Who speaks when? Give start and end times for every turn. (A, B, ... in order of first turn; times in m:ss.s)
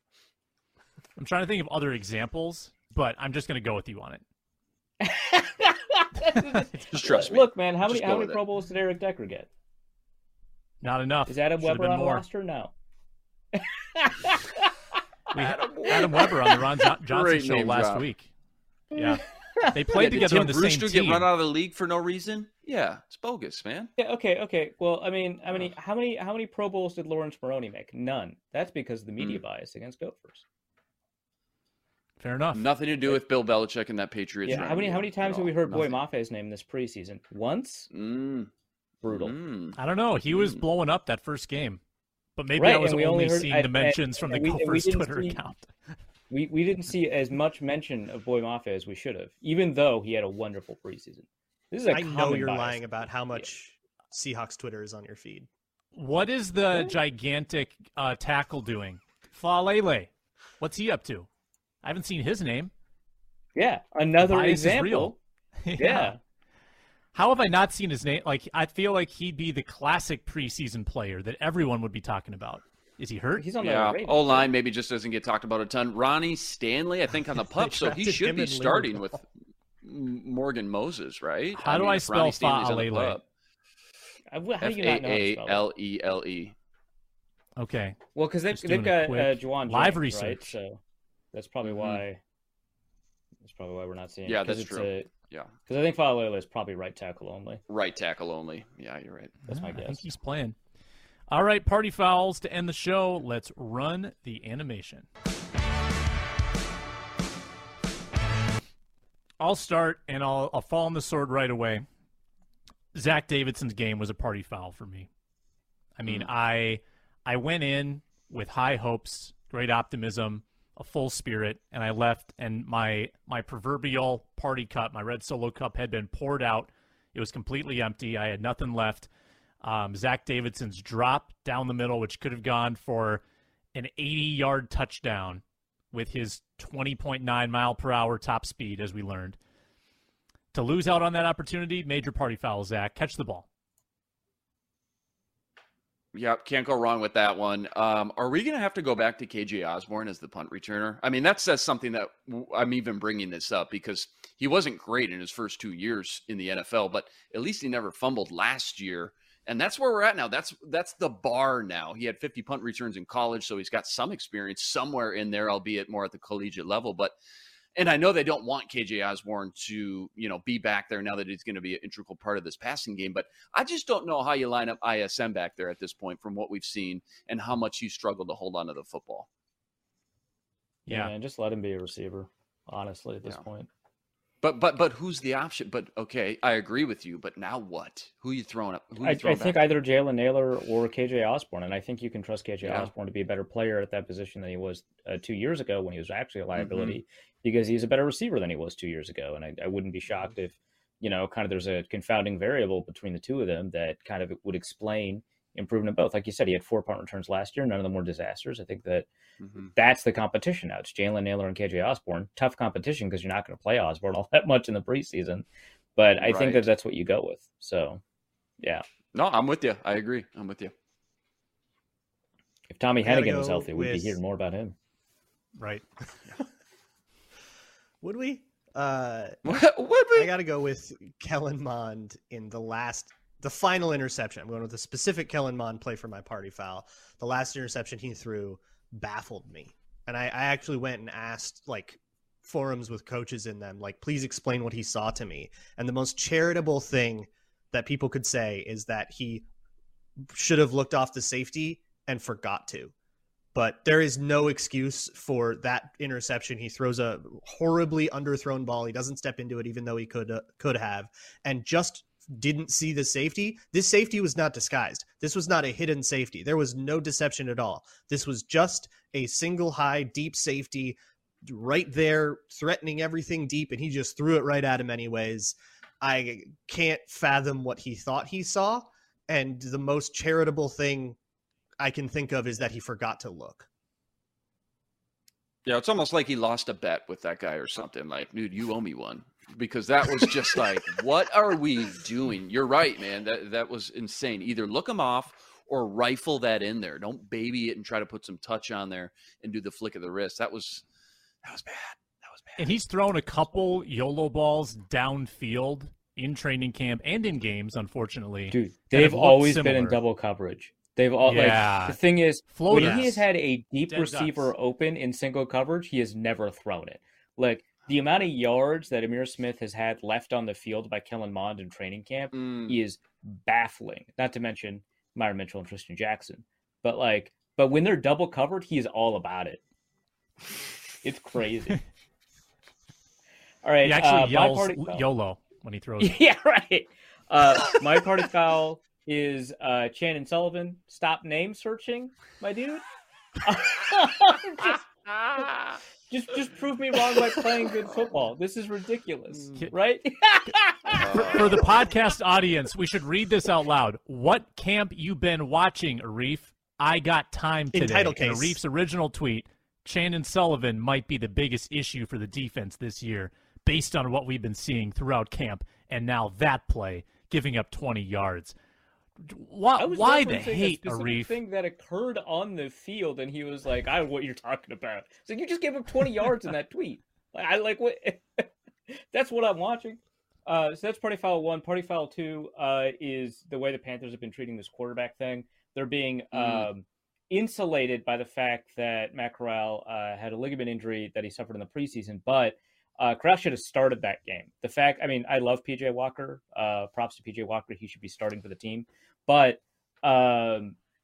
0:01.2-0:04.2 A
0:05.0-0:09.5 B
0:06.4-0:06.8 A
0:06.9-0:08.4 C
0:10.8-0:12.2 A
0:11.3-0:12.7 B
0:13.5-0:14.7 B
0:15.3-0:18.0 C
0:15.3-0:18.3 A
0:18.9-0:21.3 A
0:19.9-0:23.9 C
0:24.0-0:30.4 B
0:29.2-0:29.4 C
0:32.2-0:32.7 A
0:32.5-0:36.0 C
0:34.4-0:37.9 B
0:37.9-0:38.5 C
0:39.0-0:39.3 B
0:39.0-0:39.8 C
0:39.8-0:41.8 A
0:40.3-0:40.6 C
0:42.4-0:45.7 A
0:42.6-0:45.4 B
0:46.3-0:53.5 B
0:51.9-0:55.5 D
0:55.9-1:01.3 A
1:01.8-1:02.7 A
1:03.5-1:05.2 B
1:04.2-1:05.1 A
1:05.6-1:06.1 A
1:05.8-1:06.2 B
1:07.1-1:13.5 A
1:13.4-1:14.5 B
1:13.6-1:19.2 C
1:17.6-1:18.9 A
1:17.8-1:18.8 D
1:19.8-1:23.2 C
1:21.6-1:23.2 A
1:24.3-1:25.7 B
1:24.6-1:26.5 C
1:27.6-1:28.0 A
1:28.1-1:30.8 B
1:28.5-1:30.5 A
1:31.3-1:32.2 B
1:31.6-1:32.0 C
1:33.4-1:35.1 B
1:34.2-1:35.5 C
1:35.7-1:37.6 B
1:37.7-1:39.4 C
1:39.5-1:40.6 A
1:39.5-1:40.0 B
1:41.3-1:45.1 A
1:49.4-1:51.9 A
1:52.9-1:55.1 A
1:56.0-2:09.1 A
2:09.6-2:13.2 A
2:13.7-2:19.4 A
2:20.5-2:23.4 A
2:26.1-2:47.1 C
2:47.7-2:59.3 C
3:00.9-3:01.1 A
3:00.9-3:03.7 B
3:04.4-3:09.6 C
3:09.0-3:29.1 B
3:12.6-3:12.9 C
3:16.6-3:17.0 C
3:29.4-3:29.7 C
3:29.8-3:38.0 B
3:36.2-3:36.6 C
3:39.1-3:40.7 C
3:42.7-3:44.7 B
3:43.0-3:44.2 D
3:45.6-3:45.8 A
3:48.0-4:09.5 D
3:49.4-3:50.3 C
4:10.2-4:12.9 D
4:13.5-4:41.2 D
4:41.8-4:43.7 D
4:45.6-5:00.8 C
5:01.4-5:02.7 C
5:02.6-5:10.0 A
5:08.5-5:29.6 B
5:11.2-5:12.0 A
5:12.5-5:13.3 A
5:13.8-5:14.5 A
5:22.3-5:22.8 C
5:31.0-5:31.8 B
5:33.6-5:35.0 B
5:33.8-5:36.2 A
5:36.0-5:42.8 B
5:43.4-5:44.8 B
5:45.2-5:45.8 C
5:46.1-5:51.4 B
5:50.9-5:51.7 C
5:51.0-6:08.5 A
5:57.7-5:58.6 D
6:09.2-6:11.3 A
6:09.8-6:40.8 B
6:26.3-6:26.7 C